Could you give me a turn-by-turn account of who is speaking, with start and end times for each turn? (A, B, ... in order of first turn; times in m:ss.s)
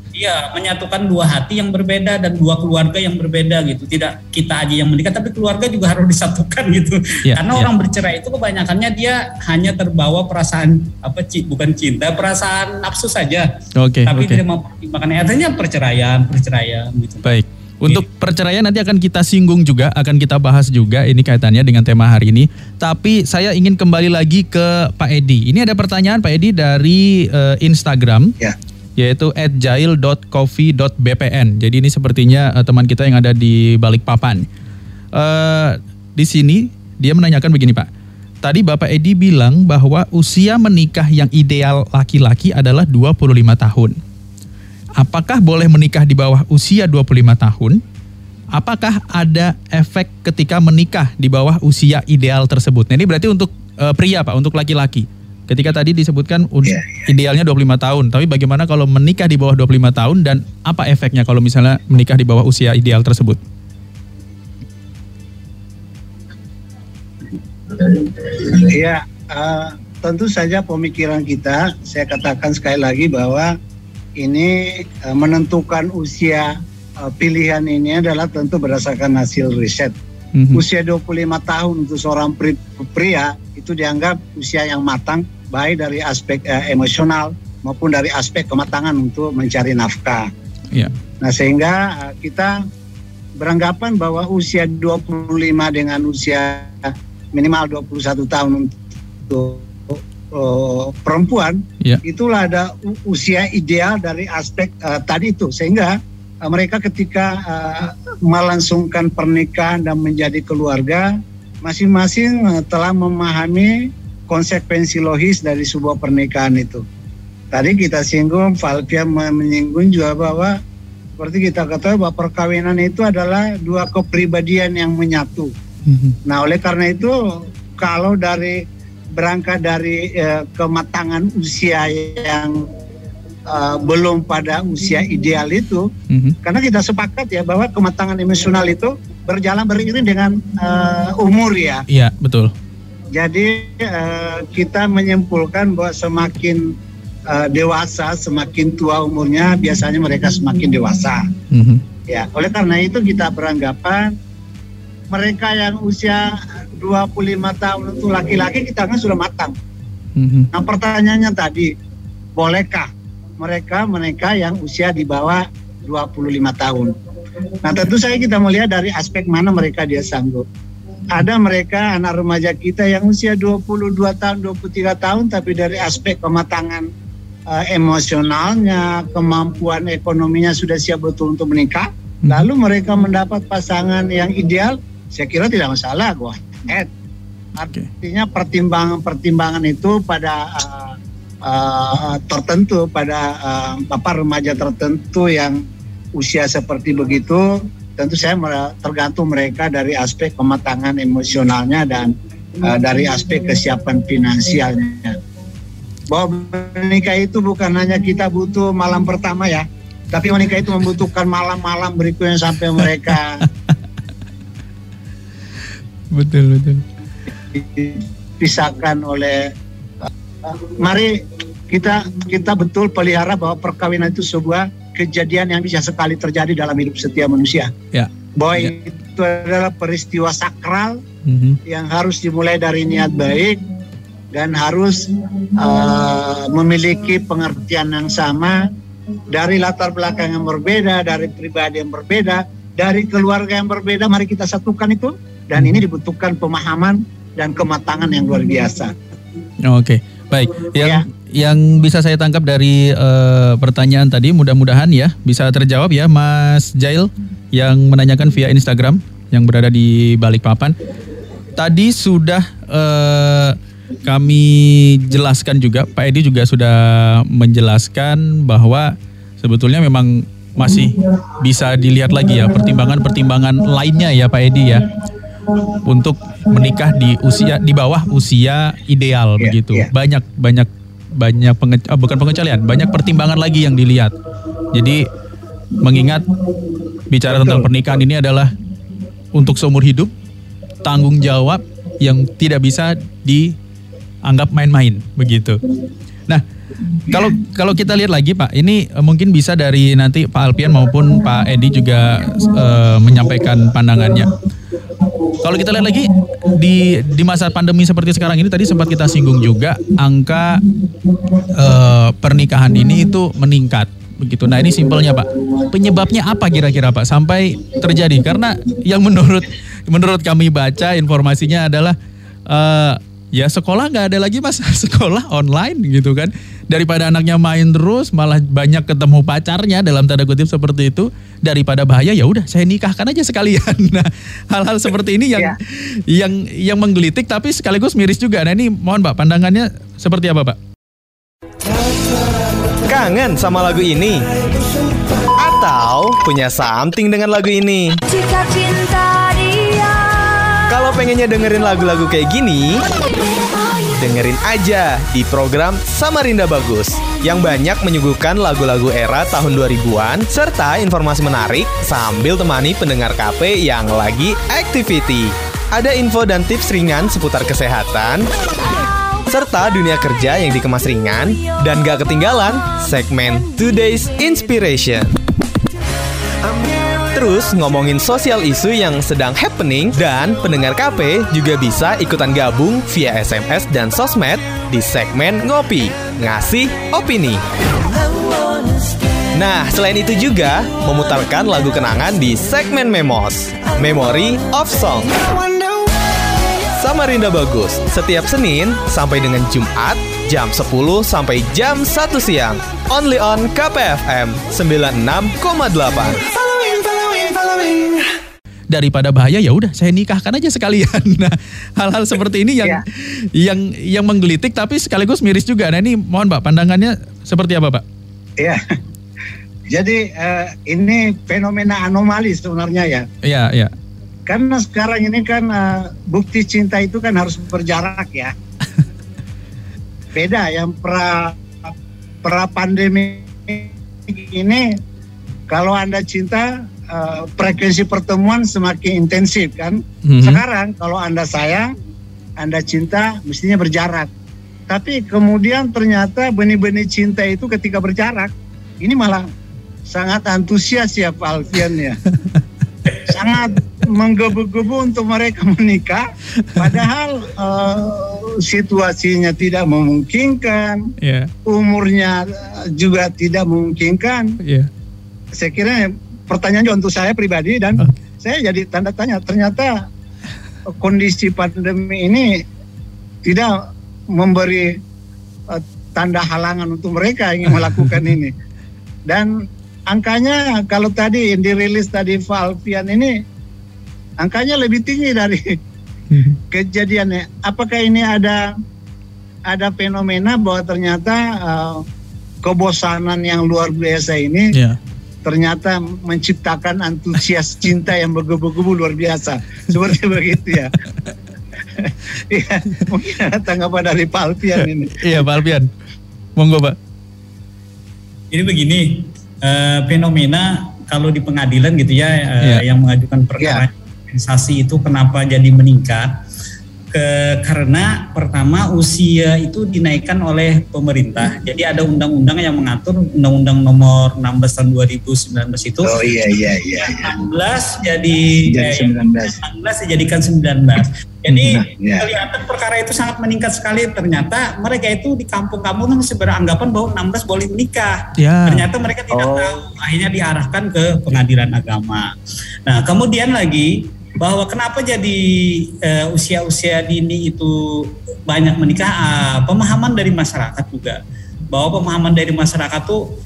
0:00.1-0:13.5 A
0:07.3-0:07.7 B
0:13.8-0:14.4 B
0:14.0-0:17.3 A
0:17.2-0:28.3 B
0:29.0-0:34.4 B
0:35.1-0:37.9 B
0:38.4-0:44.0 B
0:45.0-0:47.8 B
0:48.5-1:03.4 B
1:07.7-1:13.5 C
1:14.2-1:20.0 C
1:20.3-1:20.6 B
1:20.5-1:30.3 C
1:31.2-1:32.6 C
1:33.4-1:56.8 C
1:57.5-2:00.6 C
2:01.2-2:05.5 C
2:05.9-2:06.2 B
2:06.2-2:08.6 C
2:09.1-2:12.7 C
2:13.5-2:15.9 C
2:16.1-2:16.4 B
2:16.4-2:21.8 C
2:21.9-2:22.5 B
2:23.1-2:26.8 C
2:27.3-2:31.3 C
2:31.5-2:31.8 B
2:32.1-2:34.2 C
2:35.1-2:39.5 C
2:40.2-2:40.5 B
2:40.5-2:41.7 C
2:42.4-2:46.9 C
2:47.6-2:50.4 C
2:51.1-2:56.9 C
2:57.5-3:06.9 C
3:07.6-3:07.9 B
3:08.0-3:15.6 C
3:16.2-3:25.2 C
3:26.1-3:33.4 C
3:36.1-3:36.8 B
3:37.5-3:39.5 C
3:40.4-3:47.7 C
3:47.9-3:48.7 B
3:48.4-3:51.0 C
3:51.2-3:51.6 B
3:51.6-3:53.6 C
3:54.3-3:58.6 C
3:59.3-4:08.9 C
4:09.6-4:20.7 B
4:10.7-4:11.0 C
4:21.6-4:34.8 B
4:35.7-4:44.1 B
4:39.4-4:39.9 C
4:44.7-4:45.1 B
4:45.7-4:46.3 B
4:47.1-4:48.5 B
4:47.3-4:47.7 C
4:49.3-4:50.1 B
4:50.8-4:53.5 B
4:54.2-4:55.6 B
4:57.0-5:04.3 B
5:05.3-5:10.6 B
5:11.4-5:22.0 B
5:22.5-5:40.6 B
5:42.7-5:44.2 D
5:45.4-5:48.0 D
5:48.2-5:50.3 E
5:50.7-5:52.8 D
5:54.0-6:08.2 D
6:09.2-6:15.1 D
6:17.1-6:27.4 D
6:29.3-6:35.8 D
6:36.8-6:46.2 D
6:46.4-6:48.0 C
6:48.7-6:57.8 B
6:58.4-6:58.7 C
6:59.7-7:03.1 C
7:03.2-7:03.7 B
7:04.3-7:08.3 C
7:10.1-7:11.7 C
7:12.2-7:14.8 C
7:15.5-7:21.7 C
7:20.0-7:20.4 B
7:22.4-7:24.1 C
7:24.7-7:29.3 C
7:29.9-7:32.0 C
7:33.0-7:36.0 C
7:36.5-7:40.9 C
7:41.0-7:41.3 B
7:41.4-7:44.4 C
7:44.4-7:44.7 B
7:45.3-7:49.7 C
7:50.6-7:52.4 C
7:53.2-7:53.6 C
7:54.1-7:54.8 C
7:55.5-7:58.3 C
7:59.1-7:59.3 C
7:59.9-8:03.2 C
8:04.2-8:05.6 C
8:06.1-8:06.4 B
8:06.5-8:08.5 C
8:09.5-8:11.8 C
8:12.4-8:14.5 C
8:15.2-8:20.7 C
8:21.7-8:25.2 C
8:24.6-8:25.7 B
8:26.4-8:26.8 B
8:28.3-8:36.1 A
8:33.4-8:33.6 C
8:36.9-8:46.0 A
8:45.8-8:47.2 C
8:46.8-9:02.1 A
8:48.5-8:49.3 C
8:51.3-8:52.1 C
8:58.2-8:58.6 B
8:59.1-8:59.5 C
9:02.6-9:11.0 A
9:11.5-9:13.0 A